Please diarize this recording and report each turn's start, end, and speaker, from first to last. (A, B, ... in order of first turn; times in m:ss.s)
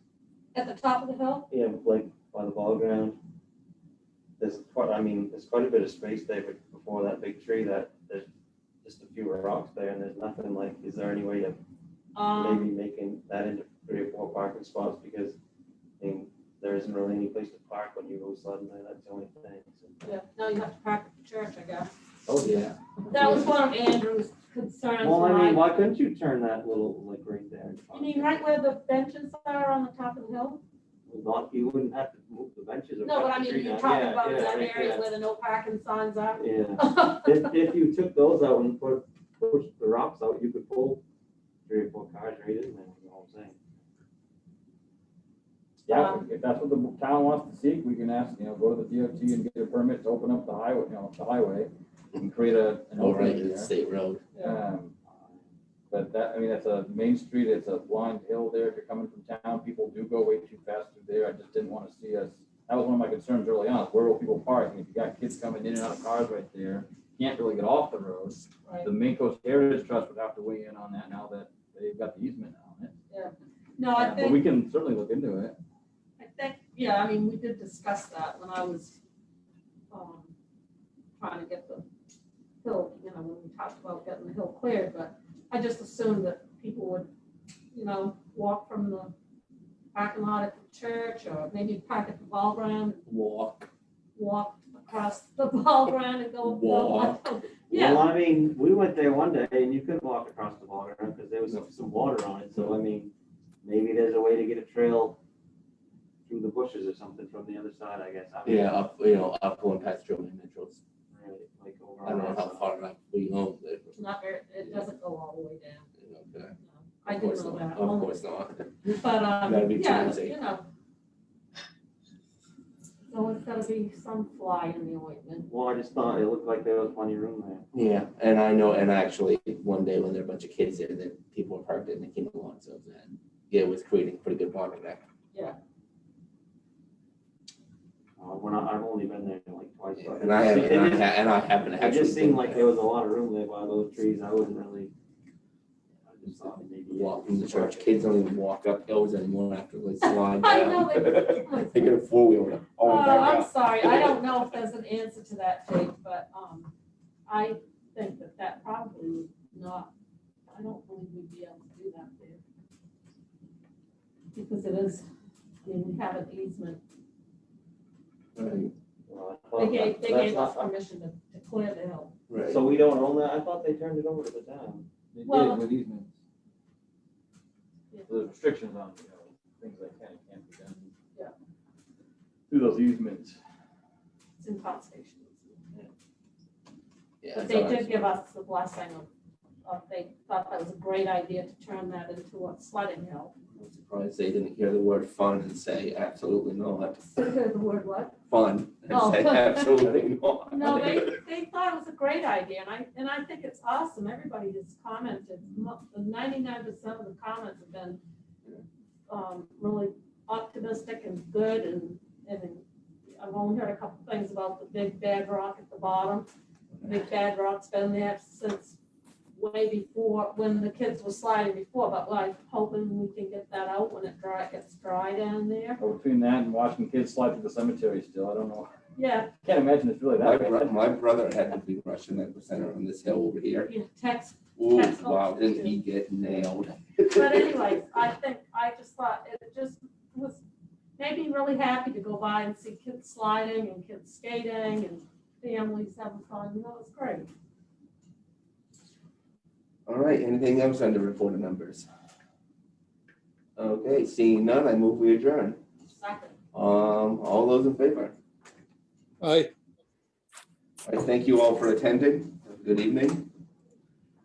0:00.5-0:01.5 A
0:01.5-0:03.2 B
0:04.4-0:08.2 B
0:08.8-0:11.6 B
0:12.1-0:12.7 A
0:12.4-0:15.4 B
0:16.0-0:20.1 B
0:20.0-0:21.9 A
0:22.2-0:22.6 C
0:22.4-0:23.4 D
0:23.1-0:25.7 A
0:25.0-0:28.4 B
0:27.9-0:30.6 A
0:31.1-0:35.0 B
0:33.0-0:37.4 A
0:36.4-0:41.0 B
0:41.7-0:43.6 B
0:45.9-0:46.2 A
0:45.9-0:53.7 C
0:53.0-0:54.2 D
0:54.4-0:54.9 C
0:55.1-0:55.4 B
0:55.9-1:12.9 C
1:13.1-1:14.4 A
1:13.9-1:15.6 C
1:16.2-1:19.0 A
1:19.9-1:20.3 A
1:21.2-1:21.8 A
1:22.6-1:27.1 A
1:27.7-1:29.1 A
1:30.0-1:33.0 A
1:33.1-1:33.7 D
1:34.2-1:38.1 A
1:36.4-1:37.2 D
1:37.7-1:43.1 B
1:43.6-1:45.2 B
1:46.2-1:48.8 B
1:48.4-1:50.8 D
1:51.1-1:52.6 B
1:52.0-1:54.0 D
1:54.0-1:55.9 A
1:56.0-1:56.6 D
1:56.6-1:58.2 A
1:57.1-2:00.4 D
1:58.9-2:00.6 A
2:03.1-2:05.5 A
2:05.5-2:07.6 B
2:07.7-2:15.0 D
2:15.3-2:15.6 A
2:18.2-2:21.1 B
2:20.0-2:22.6 D
2:21.8-2:24.9 B
2:26.1-2:28.0 B
2:26.9-2:34.2 D
2:30.0-2:31.9 A
2:32.8-2:36.7 A
2:37.3-2:39.9 A
2:40.5-2:42.4 A
2:44.4-2:45.1 A
2:45.6-2:46.8 A
2:48.4-2:48.7 D
2:49.1-2:50.7 B
2:49.6-2:52.1 A
2:52.3-2:52.6 D
2:52.4-2:54.9 B
2:55.1-2:56.1 C
2:55.2-2:55.6 A
2:58.1-3:00.9 C
3:02.5-3:03.4 C
3:04.4-3:05.6 A
3:07.2-3:08.1 D
3:07.3-3:09.1 A
3:09.6-3:13.3 A
3:13.6-3:17.1 D
3:17.1-3:18.2 A
3:18.3-3:21.2 D
3:18.9-3:19.8 A
3:20.5-3:28.0 A
3:29.1-3:32.6 A
3:33.1-3:36.3 A
3:36.8-3:38.8 A
3:39.4-3:45.8 A
3:45.8-3:48.7 C
3:49.0-3:49.3 A
3:49.4-3:50.7 C
3:50.2-3:53.7 D
3:53.7-3:55.7 A
3:54.6-3:57.7 D
3:57.1-4:00.4 A
4:01.0-4:07.3 A
4:09.8-4:11.9 D
4:13.6-4:15.6 D
4:15.9-4:16.3 A
4:16.5-4:18.1 D
4:19.2-4:19.5 C
4:20.8-4:23.3 D